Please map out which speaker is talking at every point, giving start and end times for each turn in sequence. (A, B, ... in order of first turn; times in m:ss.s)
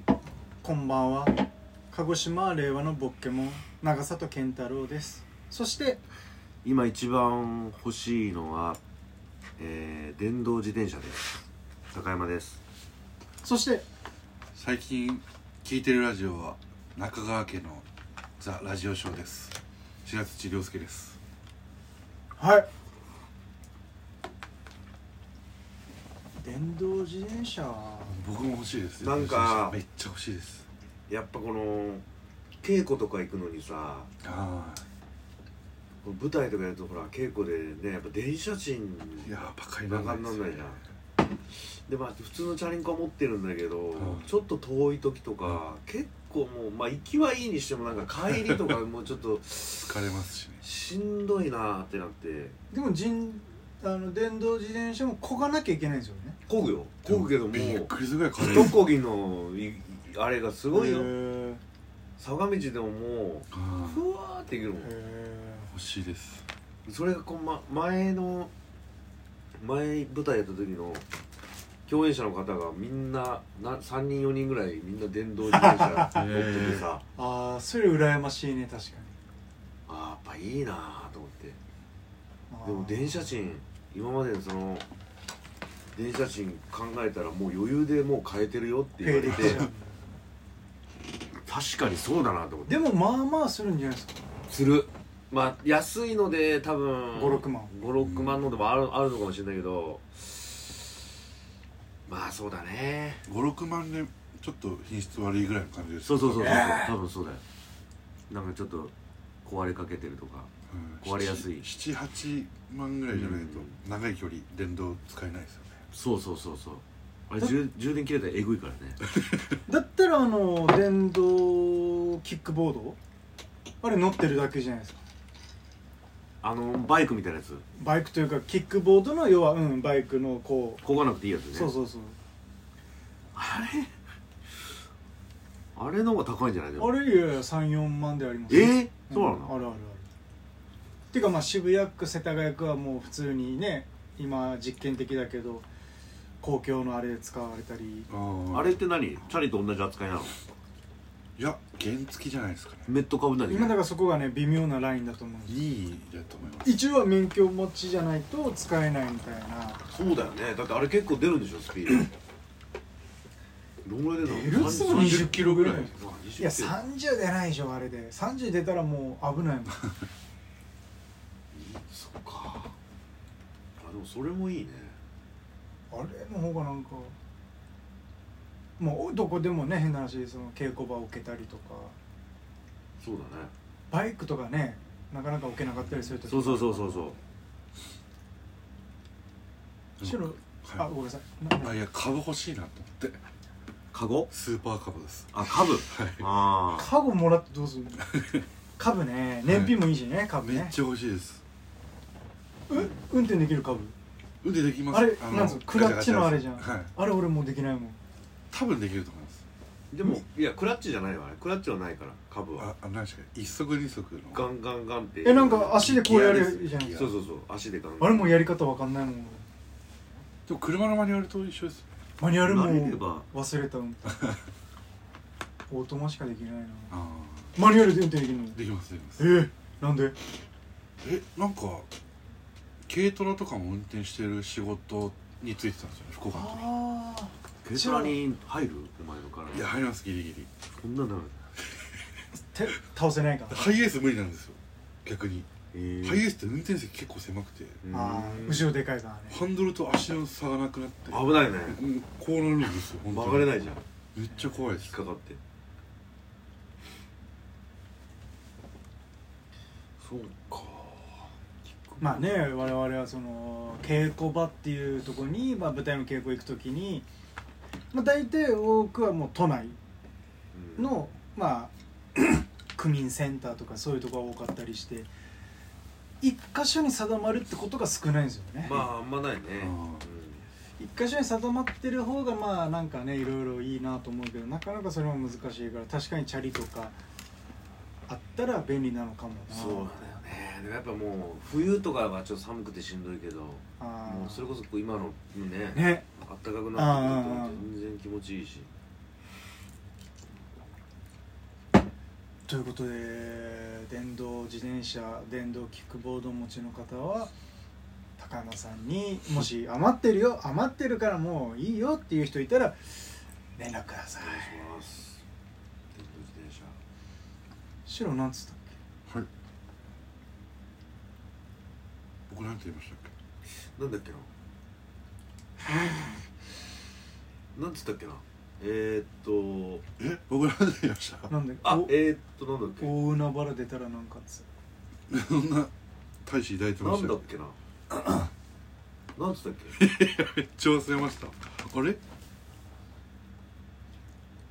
0:00.6-0:01.3 A
0:01.9-0:06.0 A
0:06.6-0:08.8 B
0:09.6-0:11.3 B
0:11.9-0:12.6 B
0:13.4-0:13.8 A
0:14.6-0:17.8 C
0:18.4-0:21.2 C
0:22.4-0:22.7 A
0:26.4-0:28.2 A
0:28.1-0:30.7 C
0:29.0-0:29.8 B
0:31.1-0:32.0 B
0:32.6-0:34.1 B
0:34.2-0:34.9 C
0:36.0-0:40.8 B
0:39.2-0:40.6 C
0:41.5-0:50.0 B
0:43.9-0:44.3 C
0:49.7-0:50.6 C
0:50.6-0:52.6 B
0:52.7-0:56.4 A
0:56.5-1:01.2 B
0:57.1-0:58.9 C
1:00.7-1:01.6 A
1:02.2-1:04.9 B
1:03.5-1:04.0 C
1:04.8-1:05.7 A
1:05.7-1:06.4 C
1:06.9-1:08.5 B
1:09.6-1:11.0 B
1:11.9-1:17.0 B
1:15.5-1:16.3 A
1:16.1-1:16.9 C
1:17.1-1:19.2 A
1:19.9-1:21.6 B
1:22.5-1:23.3 A
1:22.6-1:24.8 B
1:26.0-1:29.6 B
1:29.0-1:30.0 A
1:29.3-1:29.7 C
1:31.4-1:32.8 B
1:32.7-1:34.2 A
1:34.5-1:40.8 B
1:37.1-1:37.7 A
1:38.0-1:38.4 C
1:42.1-1:43.2 B
1:43.3-1:46.8 C
1:46.0-1:47.4 B
1:46.4-1:46.9 A
1:48.3-1:48.9 B
1:49.4-1:50.5 B
1:50.7-1:55.8 C
1:51.0-1:51.7 B
1:53.1-1:53.8 B
1:55.9-1:59.0 B
1:59.2-1:59.4 C
1:59.7-2:03.0 A
2:03.8-2:05.0 A
2:06.4-2:07.6 B
2:07.8-2:10.8 A
2:10.8-2:11.7 B
2:11.5-2:12.2 A
2:13.3-2:13.9 B
2:15.8-2:17.0 B
2:16.8-2:20.1 A
2:18.5-2:19.5 B
2:21.1-2:25.7 A
2:26.4-2:28.1 A
2:28.1-2:28.8 C
2:28.5-2:30.4 B
2:31.4-2:33.0 C
2:32.9-2:33.8 B
2:33.5-2:35.7 A
2:35.5-2:36.8 C
2:36.6-2:39.8 A
2:39.9-2:42.1 B
2:43.8-2:46.8 B
2:44.2-2:49.9 A
2:44.3-2:46.0 C
2:51.5-2:52.7 B
2:53.8-2:55.0 B
2:55.9-2:57.2 A
2:58.8-3:02.0 A
3:03.0-3:03.5 B
3:03.9-3:07.1 A
3:06.3-3:07.2 B
3:10.0-3:10.9 C
3:10.0-3:11.8 A
3:11.6-3:13.2 C
3:13.9-3:14.3 B
3:14.3-3:16.3 C
3:15.3-3:16.9 B
3:16.7-3:18.1 A
3:18.2-3:18.4 C
3:18.8-3:20.8 A
3:19.5-3:19.8 C
3:20.4-3:21.4 C
3:22.7-3:24.0 A
3:22.7-3:23.0 B
3:24.4-3:26.9 C
3:24.9-3:28.0 A
3:28.5-3:29.4 C
3:29.9-3:32.7 B
3:32.6-3:34.5 C
3:34.3-3:38.5 B
3:35.2-3:37.1 A
3:36.1-3:37.1 C
3:38.0-3:39.4 A
3:40.5-3:41.9 C
3:42.2-3:44.2 A
3:42.4-3:43.3 B
3:45.7-3:46.9 A
3:46.9-3:47.6 C
3:47.6-3:48.6 A
3:48.6-3:49.3 C
3:49.2-3:50.2 A
3:51.0-3:51.9 C
3:52.8-3:56.7 C
3:56.3-3:58.2 A
3:57.6-3:59.7 B
3:59.5-4:00.5 C
4:00.7-4:01.4 B
4:02.3-4:03.7 A
4:03.5-4:05.5 C
4:05.7-4:06.3 B
4:06.0-4:07.8 C
4:07.8-4:08.8 B
4:07.9-4:09.5 A
4:09.3-4:13.5 C
4:11.1-4:11.8 B
4:13.1-4:13.8 B
4:14.2-4:15.0 C
4:14.3-4:14.6 A
4:14.8-4:15.4 B
4:20.0-4:22.5 B
4:22.0-4:27.1 A
4:27.9-4:29.8 A
4:30.5-4:31.0 B
4:30.8-4:35.1 A
4:36.2-4:38.8 A
4:38.6-4:40.4 B
4:39.6-4:40.0 C
4:40.8-4:47.0 A
4:48.1-4:50.2 A
4:49.5-4:58.7 B
4:53.8-4:54.5 A
4:55.7-4:56.1 A
4:56.7-4:57.7 A
5:02.5-5:07.3 A
5:08.2-5:14.6 A
5:14.2-5:15.2 B
5:16.0-5:16.8 B
5:17.9-5:18.8 A
5:22.3-5:23.1 C
5:23.8-5:24.3 B
5:25.7-5:26.2 B
5:27.6-5:29.8 B
5:30.0-5:31.3 C
5:31.3-5:32.0 A
5:31.6-5:32.9 B
5:32.8-5:34.5 A
5:35.1-5:35.7 C
5:36.2-5:37.2 C
5:36.8-5:37.6 B
5:39.2-5:39.8 B
5:39.8-5:42.0 C